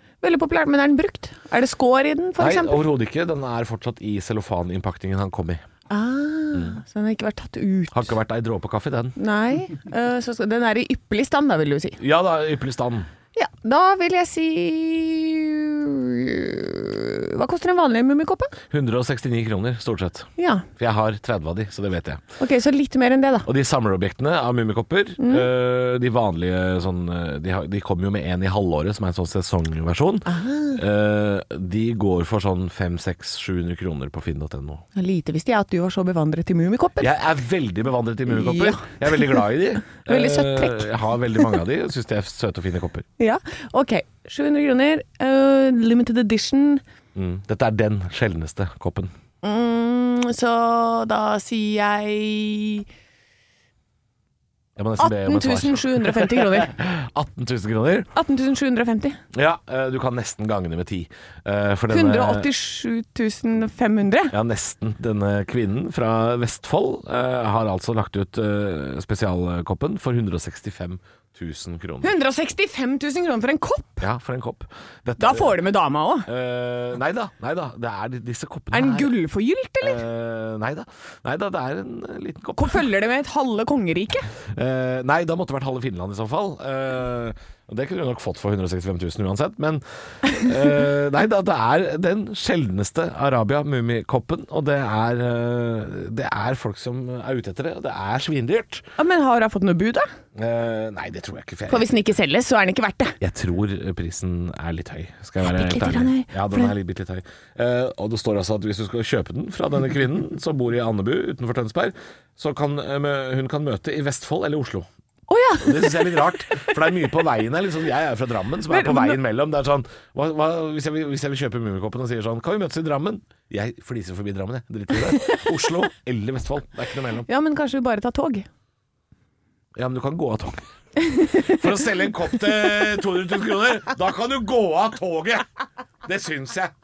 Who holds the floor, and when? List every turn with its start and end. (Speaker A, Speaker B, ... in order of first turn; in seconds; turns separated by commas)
Speaker A: 0.2-2.9, Speaker B: 2.4-5.6, Speaker A: 5.9-8.1, Speaker B: 6.5-6.8, Speaker B: 7.9-9.2, Speaker A: 9.2-12.0, Speaker B: 12.0-13.1, Speaker A: 13.3-18.5, Speaker B: 18.7-22.2, Speaker A: 20.4-20.6, Speaker A: 22.4-23.5, Speaker B: 23.5-34.9, Speaker A: 25.2-25.5, Speaker A: 30.3-30.8, Speaker A: 35.0-37.1, Speaker B: 37.0-43.1, Speaker A: 38.3-39.4, Speaker A: 40.0-41.5, Speaker A: 43.2-46.8, Speaker B: 47.1-49.1, Speaker A: 49.4-52.9, Speaker B: 54.8-58.1, Speaker A: 55.0-56.7, Speaker A: 58.1-59.2, Speaker B: 59.3-62.5, Speaker A: 61.9-64.3, Speaker B: 64.3-72.1, Speaker A: 72.0-74.0, Speaker B: 74.0-75.6, Speaker A: 75.2-76.3, Speaker B: 76.3-79.1, Speaker A: 78.7-80.0, Speaker B: 79.8-82.9, Speaker A: 82.6-84.3, Speaker B: 84.5-98.8, Speaker A: 99.0-100.1, Speaker B: 100.3-101.9, Speaker A: 101.7-103.2, Speaker B: 103.2-114.9, Speaker A: 105.4-106.7, Speaker A: 115.3-116.2, Speaker B: 115.6-127.3, Speaker A: 118.7-119.2, Speaker A: 127.3-128.5, Speaker B: 129.8-130.6, Speaker A: 131.1-131.6, Speaker B: 131.3-135.4, Speaker B: 136.0-136.7